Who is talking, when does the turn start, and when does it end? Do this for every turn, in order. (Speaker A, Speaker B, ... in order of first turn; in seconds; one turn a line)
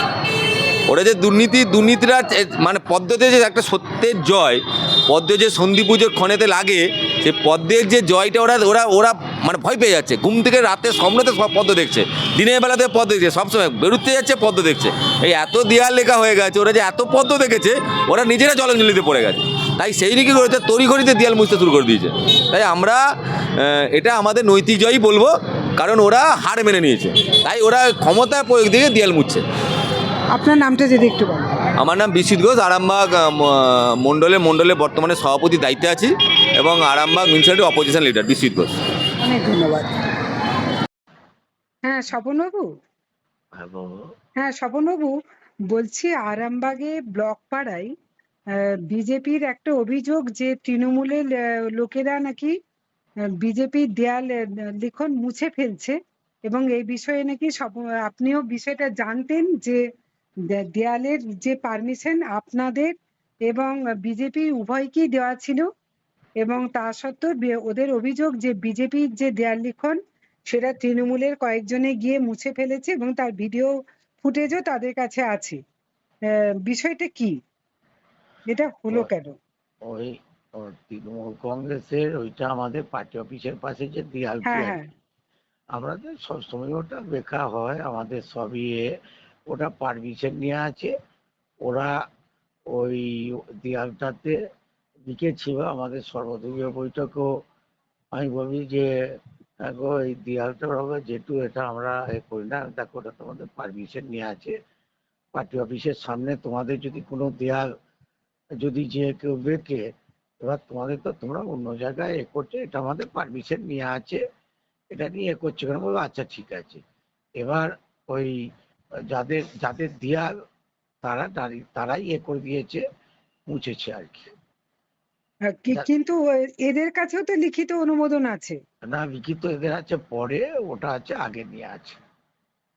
Speaker A: 0.9-23.0
Speaker A: 23.6-29.4
Speaker B: 30.3-31.6
Speaker A: 31.8-38.8
Speaker B: 39.2-39.9
Speaker B: 41.8-42.7
Speaker C: 43.5-44.1
Speaker B: 44.4-45.2
Speaker B: 45.7-47.9
Speaker B: 48.5-52.5
Speaker B: 53.4-59.8
Speaker B: 60.5-62.9
Speaker B: 63.5-65.7
Speaker B: 66.4-75.6
Speaker B: 76.3-77.4
Speaker B: 78.5-79.4
Speaker C: 79.8-84.8
Speaker B: 84.4-84.8
Speaker C: 85.7-88.9
Speaker C: 89.5-90.9
Speaker C: 91.6-92.0
Speaker C: 92.7-94.4
Speaker C: 95.0-97.4
Speaker C: 98.1-104.5
Speaker C: 105.3-107.7
Speaker C: 108.6-114.2
Speaker C: 114.9-116.8
Speaker C: 117.4-118.5
Speaker C: 119.1-120.3
Speaker C: 121.0-122.8
Speaker C: 123.5-124.3
Speaker B: 125.5-128.6
Speaker C: 128.8-132.0